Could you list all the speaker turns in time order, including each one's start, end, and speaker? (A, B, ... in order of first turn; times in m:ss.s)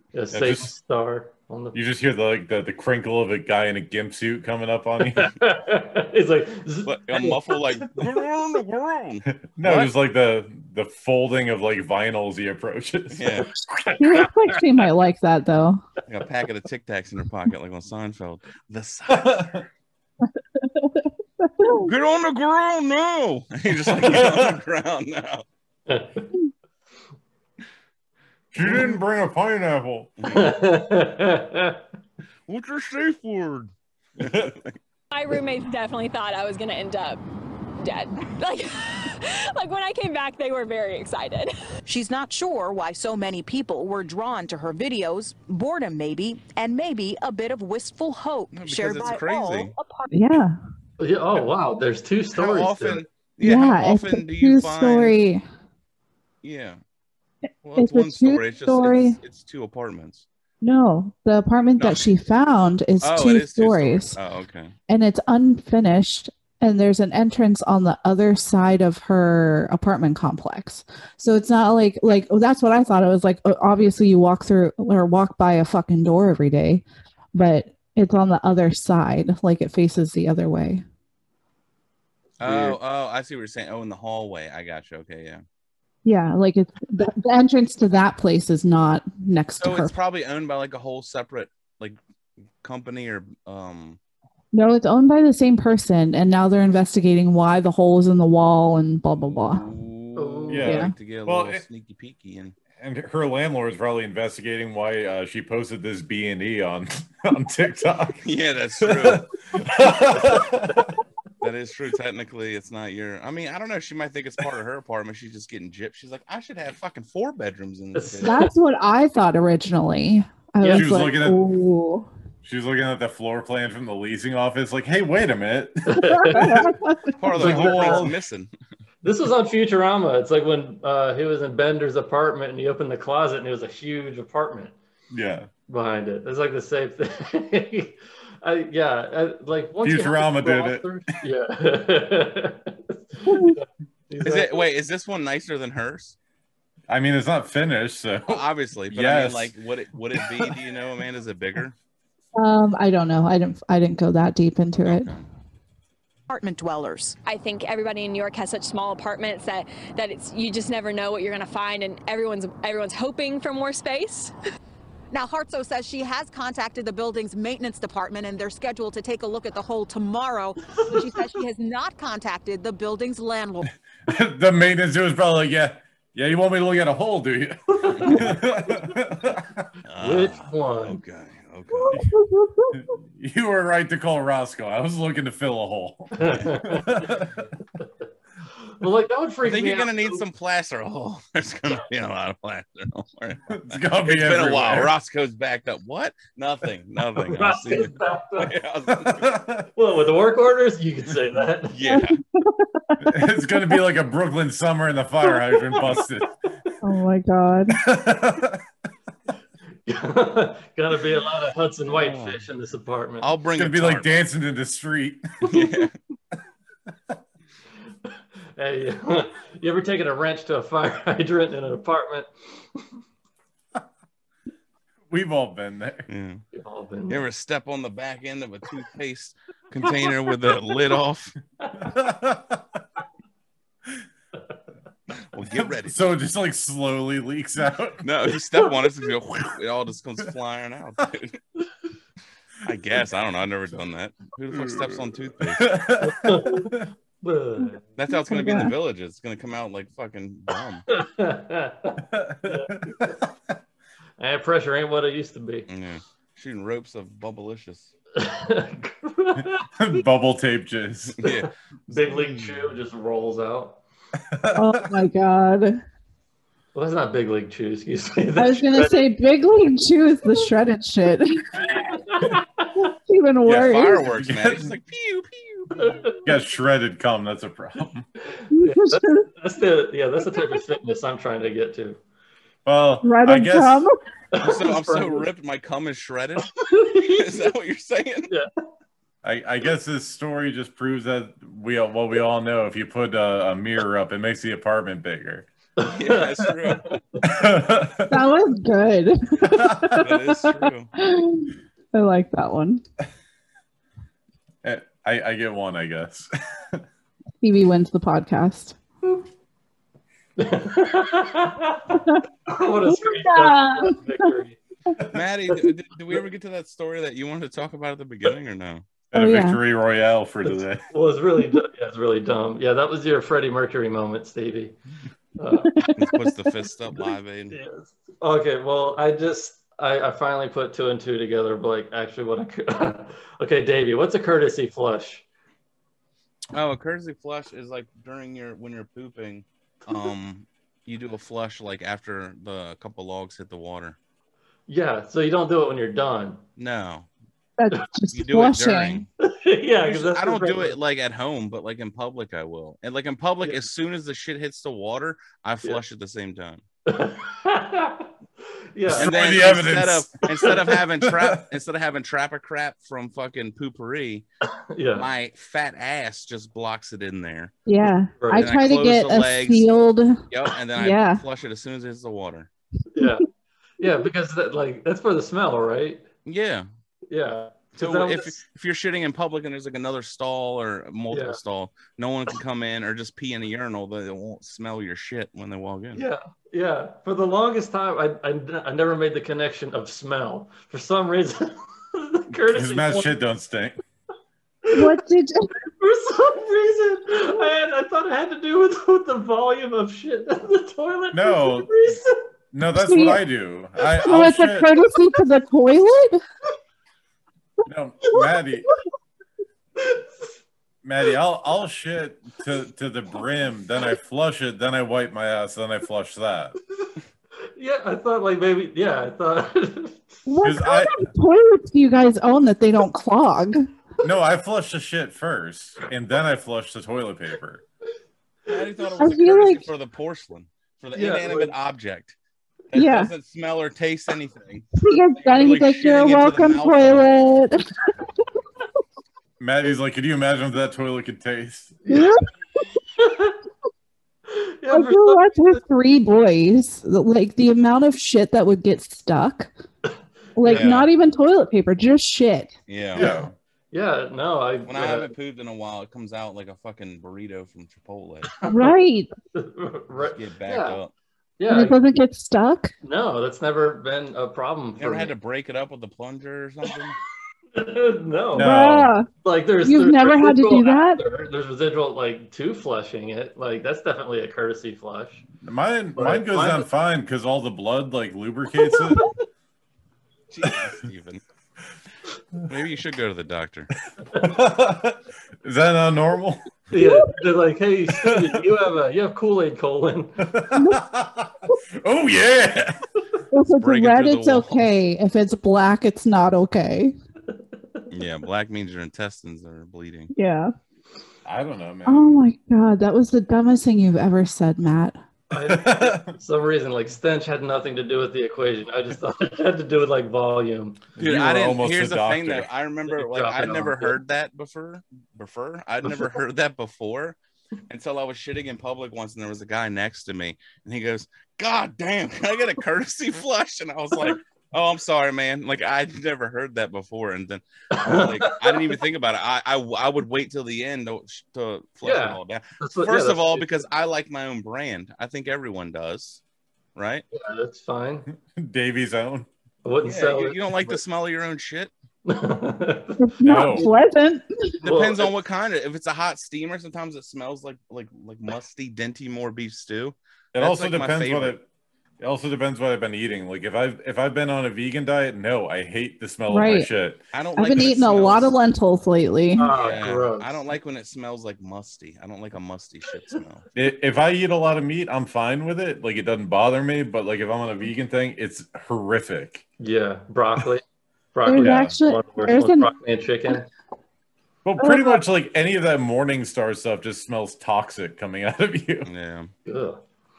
0:00.1-0:01.8 A
0:00.3-0:00.7 B
0:01.7-0:05.3 B
0:05.1-0:08.0 A
0:06.8-0:09.9 C
0:09.5-0:13.5 B
0:13.1-0:13.5 C
0:13.7-0:14.6 A
0:14.0-0:15.8 D
0:16.1-0:19.4 C
0:19.1-0:19.6 B
0:20.6-0:21.9 D
0:21.8-0:25.4 C
0:23.8-0:24.5 B
0:25.9-0:26.3 A
0:28.5-0:30.2 B
0:28.6-0:28.9 A
0:30.2-0:30.5 C
0:30.3-0:31.8 A
0:32.5-0:34.8 C
0:34.2-0:34.5 B
0:35.1-0:37.2 E
0:37.8-0:41.5 E
0:41.8-0:50.1 F
0:48.5-0:49.7 C
0:50.1-0:50.6 D
0:51.0-0:53.0 A
0:52.3-0:55.2 C
0:53.4-0:55.4 D
0:56.4-0:56.8 C
0:57.6-1:00.2 C
0:57.8-0:59.2 D
1:00.6-1:04.2 D
1:01.8-1:02.1 C
1:03.0-1:04.7 C
1:04.9-1:20.8 D
1:22.4-1:25.4 C
1:22.4-1:22.7 A
1:26.0-1:29.9 D
1:29.6-1:32.0 C
1:32.6-1:34.0 C
1:34.5-1:39.7 D
1:39.3-1:42.6 C
1:40.2-1:40.8 A
1:40.5-1:41.6 B
1:40.6-1:40.9 D
1:42.8-1:48.2 B
1:48.2-1:49.3 C
1:48.8-1:50.9 B
1:51.4-1:58.4 C
1:57.9-1:58.4 A
1:58.2-2:02.1 D
2:00.6-2:00.9 A
2:00.7-2:01.4 B
2:02.4-2:06.7 B
2:05.8-2:06.7 A
2:06.2-2:07.1 D
2:07.2-2:08.5 C
2:07.3-2:08.2 B
2:07.3-2:08.1 A
2:09.0-2:14.8 A
2:15.1-2:15.5 B
2:15.7-2:24.6 A
2:19.8-2:20.9 B
2:23.3-2:23.5 D
2:24.2-2:26.2 C
2:26.9-2:29.5 B
2:28.3-2:31.8 C
2:30.1-2:30.5 B
2:32.3-2:35.1 D
2:34.8-2:35.2 C
2:36.3-2:37.2 F
2:37.2-2:44.3 E
2:45.1-2:53.7 F
2:54.0-2:59.7 B
2:57.7-2:58.3 A
2:59.9-3:02.1 C
3:00.0-3:01.0 A
3:01.8-3:02.8 D
3:02.7-3:07.5 B
3:06.2-3:07.2 A
3:08.7-3:10.2 A
3:09.4-3:19.4 C
3:13.5-3:14.9 B
3:17.2-3:18.5 A
3:18.9-3:19.7 B
3:19.7-3:21.8 A
3:21.7-3:22.2 C
3:21.9-3:23.8 D
3:23.0-3:26.4 B
3:26.8-3:27.8 D
3:27.7-3:28.6 B
3:29.8-3:33.3 A
3:31.9-3:32.4 C
3:33.2-3:34.1 C
3:33.6-3:35.5 B
3:35.4-3:36.0 C
3:38.6-3:42.9 A
3:45.1-3:46.1 B
3:46.1-3:46.4 C
3:46.5-3:47.2 A
3:47.1-3:51.4 C
3:51.8-3:52.6 B
3:55.3-3:56.0 C
3:55.8-3:58.0 B
3:58.0-4:01.4 C
4:02.6-4:05.8 C
4:04.5-4:06.8 B
4:06.0-4:07.8 A
4:08.0-4:10.9 C
4:08.1-4:08.7 D
4:10.9-4:13.1 A
4:12.0-4:13.1 B
4:14.2-4:15.7 A
4:15.7-4:17.9 C
4:18.1-4:20.0 A
4:19.7-4:21.4 B
4:21.2-4:22.5 C
4:21.4-4:23.8 A
4:24.3-4:24.9 B
4:24.5-4:25.8 D
4:26.7-4:29.0 A
4:28.4-4:31.8 D
4:31.6-4:32.7 A
4:32.8-4:34.0 D
4:33.4-4:35.8 C
4:34.1-4:34.7 B
4:35.7-4:36.2 A
4:36.2-4:38.1 B
4:38.2-4:42.0 A
4:38.5-4:39.3 D
4:42.6-4:43.9 B
4:43.0-4:43.9 D
4:44.3-4:45.3 A
4:44.4-4:48.3 C
4:46.6-4:47.4 A
4:49.2-4:55.5 B
4:55.8-4:57.2 A
4:55.8-4:57.0 C
4:57.2-4:58.2 B
4:58.1-5:02.8 D
4:59.5-5:00.0 B
4:59.9-5:00.9 C
5:04.6-5:06.8 B
5:07.4-5:08.8 D
5:10.4-5:14.6 A
5:11.9-5:12.2 D
5:12.9-5:14.3 D
5:15.1-5:18.8 C
5:19.1-5:20.8 B
5:19.1-5:19.6 D
5:20.4-5:24.8 A
5:25.4-5:25.7 A
5:25.7-5:26.5 D
5:25.9-5:27.6 C
5:27.5-5:35.2 A
5:36.5-5:44.0 C
5:44.7-5:46.4 A
5:46.6-5:47.1 C
5:47.6-5:49.0 D
5:48.1-5:49.1 C
5:49.2-5:50.8 A
5:49.8-5:56.6 C
5:56.9-5:58.1 A
5:58.7-5:59.4 A
5:58.9-6:01.3 B
5:58.9-6:04.2 C
6:04.7-6:05.1 A
6:04.9-6:07.5 C
6:07.6-6:10.2 D
6:08.2-6:08.5 A
6:08.3-6:09.7 C
6:10.3-6:12.5 C
6:10.7-6:11.2 D
6:12.9-6:13.2 A
6:13.8-6:16.0 A
6:16.2-6:16.6 C
6:17.1-6:18.4 A
6:17.8-6:26.0 C
6:21.1-6:21.4 A
6:25.9-6:33.1 A
6:32.4-6:33.8 B
6:34.7-6:35.5 D
6:35.8-6:42.2 A
6:41.1-6:42.0 B
6:42.5-6:44.7 B
6:42.8-6:43.3 D
6:43.9-6:46.2 D
6:47.6-6:48.7 B
6:49.8-6:50.1 A
6:50.8-6:56.6 B
6:57.5-7:00.1 A
7:00.2-7:03.7 D
7:00.4-7:01.1 B
7:04.0-7:07.6 B
7:08.4-7:12.1 C
7:09.0-7:09.7 D
7:10.9-7:11.5 A
7:12.7-7:14.7 C
7:12.7-7:13.1 D
7:14.8-7:18.1 D
7:15.2-7:17.1 C
7:19.4-7:21.8 B
7:21.8-7:22.1 A
7:21.9-7:22.2 D
7:23.0-7:23.4 A
7:24.3-7:25.6 A
7:24.7-7:29.5 D
7:30.4-7:32.5 D
7:30.4-7:30.7 A
7:30.4-7:30.9 C
7:32.7-7:33.1 C
7:32.9-7:35.1 A
7:33.0-7:33.3 B
7:34.7-7:38.3 C
7:38.4-7:38.7 A
7:38.5-7:39.1 D
7:39.3-7:40.8 A
7:40.1-7:40.9 C
7:41.4-7:41.8 A
7:41.5-7:42.7 D
7:42.8-7:45.1 A
7:44.8-7:47.0 C
7:47.5-7:48.6 A
7:48.3-7:48.9 B
7:48.4-7:49.1 D
7:49.2-7:55.2 A
7:49.6-7:51.0 D
7:55.4-7:59.2 B
7:55.9-7:56.7 A
8:00.3-8:01.2 C
8:02.4-8:03.7 C
8:04.1-8:06.5 B
8:06.7-8:10.3 A
8:07.9-8:08.2 B
8:10.2-8:12.8 B
8:10.5-8:10.8 D
8:13.3-8:16.9 D
8:13.5-8:14.7 C
8:17.4-8:17.8 A
8:17.9-8:20.1 C
8:20.1-8:20.5 D
8:21.2-8:22.2 B
8:21.8-8:25.0 D
8:25.3-8:30.8 A
8:25.3-8:26.1 B
8:31.0-8:32.5 B
8:31.0-8:37.2 C
8:32.9-8:34.0 A
8:37.7-8:56.2 C
8:47.7-8:48.6 A
8:51.8-8:53.6 A
8:56.7-8:57.0 C
8:57.1-8:58.0 A
8:58.1-8:59.3 B
8:59.6-9:00.8 A
8:59.8-9:01.7 C
9:02.0-9:03.7 A
9:03.0-9:04.5 D
9:03.2-9:03.7 B
9:04.6-9:05.1 A
9:04.6-9:11.4 C
9:10.3-9:11.4 B
9:12.0-9:17.0 B
9:16.3-9:16.7 D
9:17.1-9:18.3 C
9:17.4-9:19.5 D
9:19.4-9:20.4 A
9:19.5-9:23.4 C
9:23.5-9:29.4 B
9:29.6-9:30.6 A
9:31.1-9:33.5 A
9:31.2-9:32.7 D
9:31.4-9:31.7 B
9:34.4-9:38.9 B
9:34.6-9:35.0 D
9:38.8-9:39.3 C
9:39.4-9:39.8 A